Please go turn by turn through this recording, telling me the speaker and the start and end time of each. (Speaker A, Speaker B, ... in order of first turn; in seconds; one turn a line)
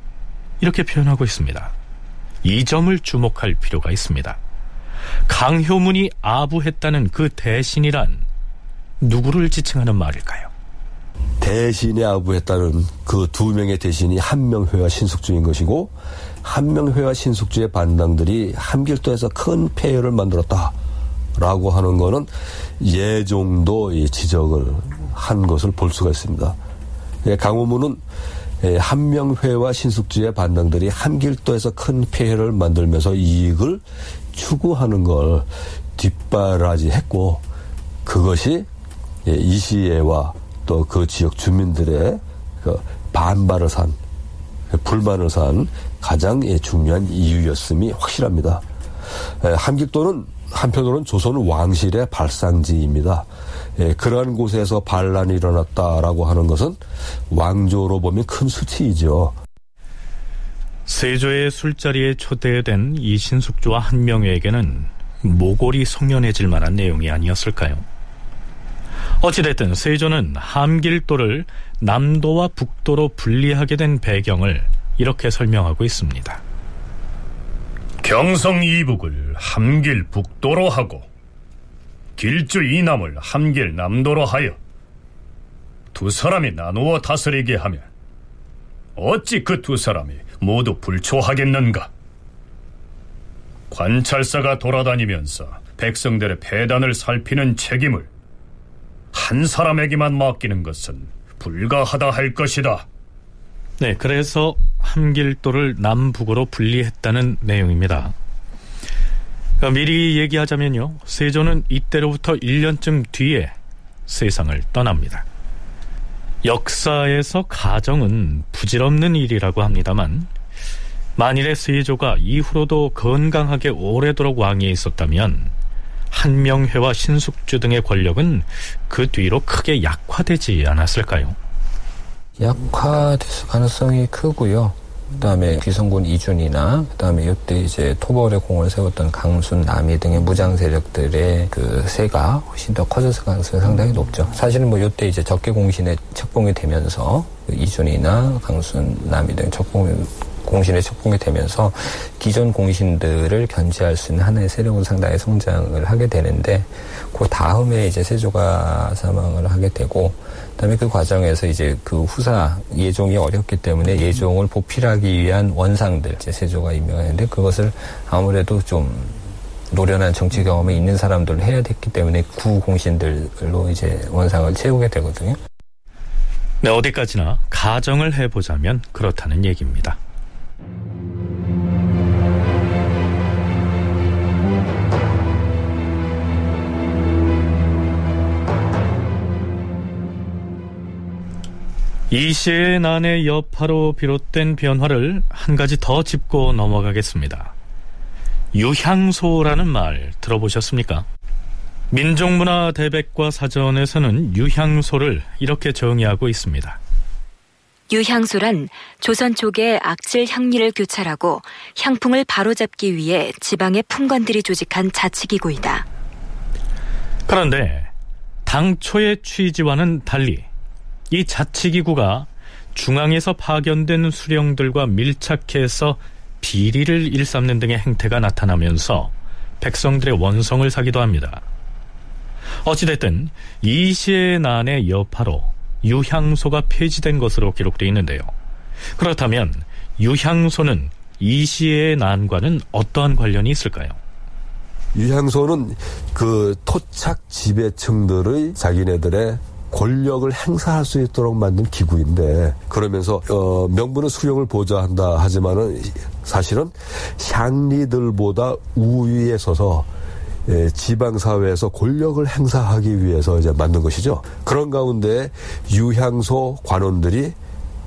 Speaker A: 0.6-1.7
Speaker A: 2.4-4.4
Speaker A: 5.3-8.2
Speaker A: 9.0-10.5
Speaker B: 11.4-20.8
Speaker B: 21.4-26.6
Speaker B: 27.2-28.0
Speaker B: 28.6-37.4
Speaker B: 38.0-38.7
Speaker B: 39.2-44.0
Speaker B: 44.7-48.6
Speaker B: 49.4-56.8
Speaker B: 57.3-59.4
Speaker A: 60.9-67.8
Speaker A: 69.2-76.4
Speaker C: 78.0-81.1
Speaker C: 82.2-84.6
Speaker C: 85.9-87.9
Speaker C: 89.0-91.9
Speaker C: 93.7-98.1
Speaker C: 99.1-102.9
Speaker A: 103.8-108.2
Speaker A: 109.6-113.5
Speaker A: 114.1-115.2
Speaker A: 116.4-120.3
Speaker A: 121.2-125.5
Speaker A: 126.1-131.4
Speaker D: 132.4-169.2
Speaker D: 169.7-175.4
Speaker A: 176.6-180.0
Speaker A: 192.1-197.5
Speaker A: 198.5-201.1
Speaker A: 201.9-206.8
Speaker E: 207.9-215.9
Speaker A: 217.3-217.9
Speaker A: 218.5-220.5
Speaker A: 221.1-231.4
Speaker A: 232.6-238.3
Speaker A: 239.0-244.0
Speaker B: 244.9-259.9
Speaker B: 260.5-267.4